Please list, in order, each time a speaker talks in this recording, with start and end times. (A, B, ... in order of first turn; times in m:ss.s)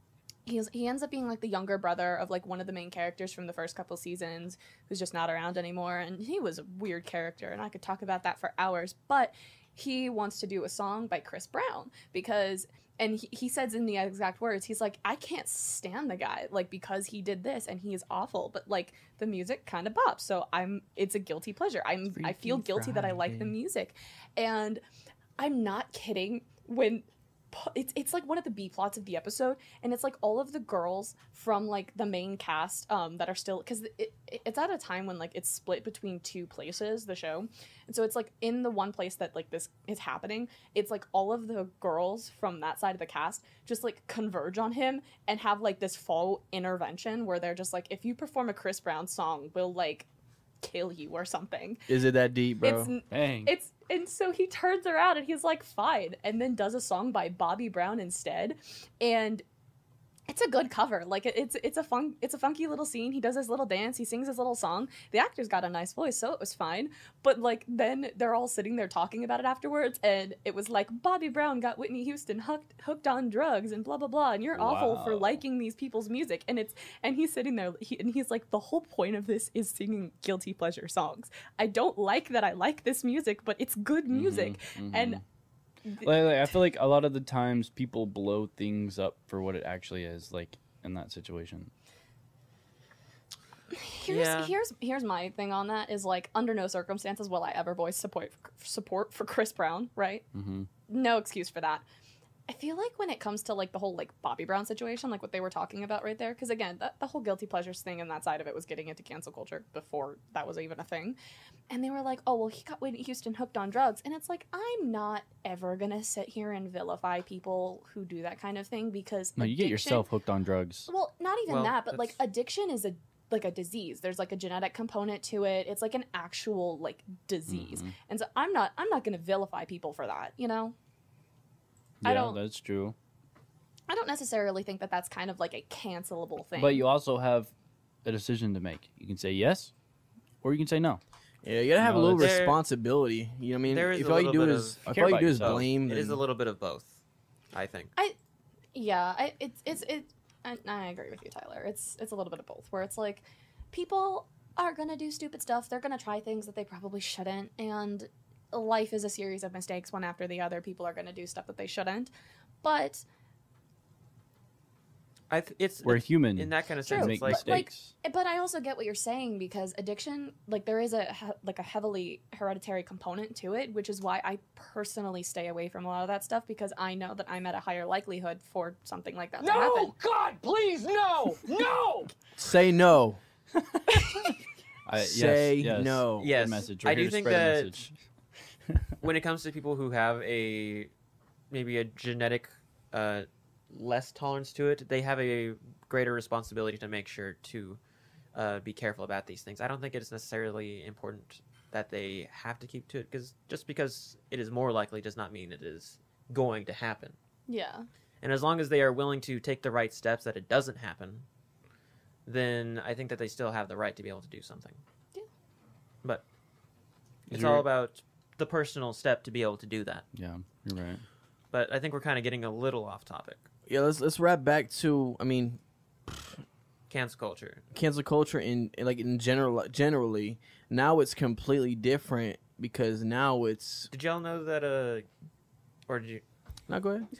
0:00.4-0:24.8 A
0:22.2-0:23.5 B
0:25.4-0:50.1 A
0:50.6-0:51.8 A
0:51.9-0:52.9 C
0:52.6-0:59.4 A
0:53.1-0:53.5 B
1:00.3-1:25.2 A
1:14.5-1:15.4 B
1:24.1-1:25.2 B
1:25.9-1:26.1 A
1:26.0-1:31.7 B
1:33.7-1:40.2 A
1:34.1-1:34.5 D
1:40.3-1:40.7 B
1:40.9-1:41.8 A
1:42.5-1:51.2 A
1:51.7-2:00.0 A
1:59.4-2:00.9 B
2:00.9-2:10.8 A
2:01.5-2:02.2 D
2:07.5-2:07.9 B
2:12.0-2:12.4 A
2:12.0-2:13.0 B
2:13.9-2:16.9 A
2:16.6-2:17.5 B
2:18.0-2:19.7 B
2:20.4-2:21.0 B
2:21.4-2:26.2 C
2:21.8-2:22.3 B
2:22.2-2:22.6 D
2:23.7-2:27.0 D
2:24.9-2:25.7 B
2:27.5-2:27.9 D
2:28.8-2:42.1 A
2:42.6-2:43.0 A
2:45.3-2:47.5 D
2:45.8-2:47.9 B
2:46.9-2:59.9 A
2:59.4-3:02.1 E
3:02.4-3:03.2 C
3:03.5-3:07.9 B
3:05.0-3:06.3 C
3:06.2-3:07.7 D
3:09.0-3:10.9 D
3:11.5-3:17.8 D
3:18.3-3:27.2 D
3:27.5-3:27.9 A
3:28.2-3:31.2 D
3:32.2-3:34.8 D
3:37.3-3:40.0 D
3:37.3-3:37.6 B
3:40.1-3:41.0 B
3:41.5-3:43.4 D
3:43.7-3:46.3 C
3:46.9-3:47.6 D
3:47.7-3:53.9 C
3:53.9-3:55.0 D
3:55.9-3:56.2 D
3:56.7-3:57.1 C